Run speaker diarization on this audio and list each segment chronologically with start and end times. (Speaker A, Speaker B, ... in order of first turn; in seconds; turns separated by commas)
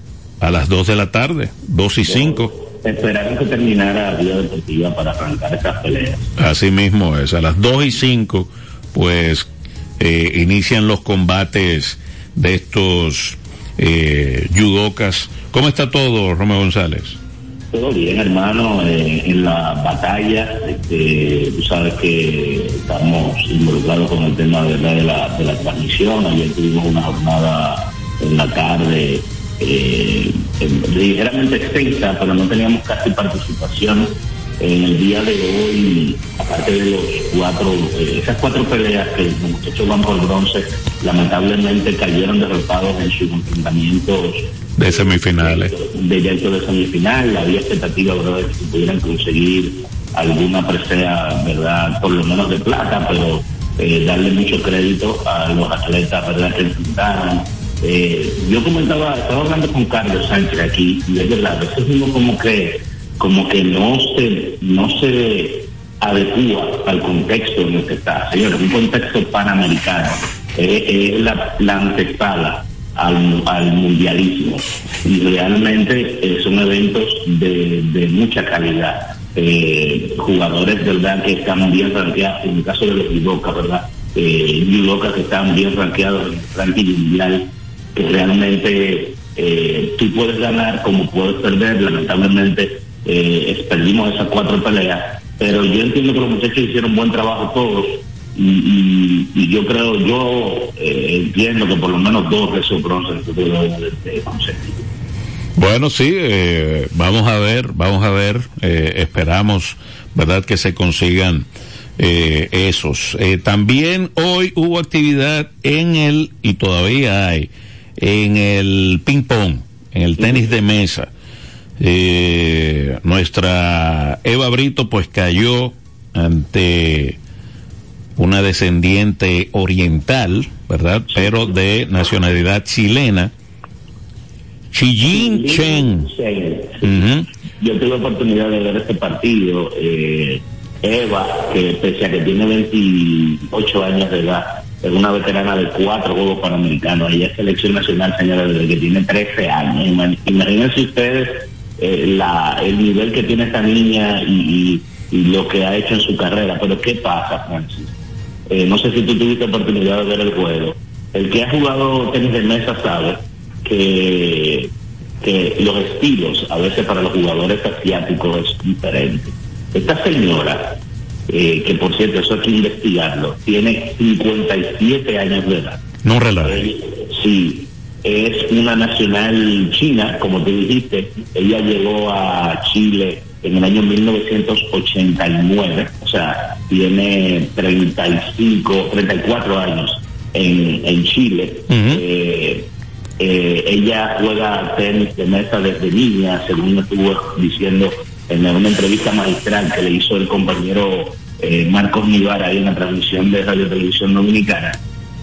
Speaker A: 0.4-2.5, Speaker B: 2.1-6.3, Speaker A: 6.4-17.2, Speaker B: 17.7-104.8, Speaker A: 44.8-45.7, Speaker A: 105.6-111.5, Speaker A: 112.0-121.1, Speaker A: 121.8-127.2, Speaker A: 128.2-133.3, Speaker B: 131.1-131.4, Speaker A: 134.7-136.1, Speaker B: 135.1-137.0, Speaker A: 136.8-137.3, Speaker B: 137.6-157.9, Speaker B: 158.5-164.7, Speaker B: 165.2-175.8, Speaker A: 176.0-176.7, Speaker B: 176.4-192.7, Speaker A: 191.7-192.0, Speaker B: 193.2-204.8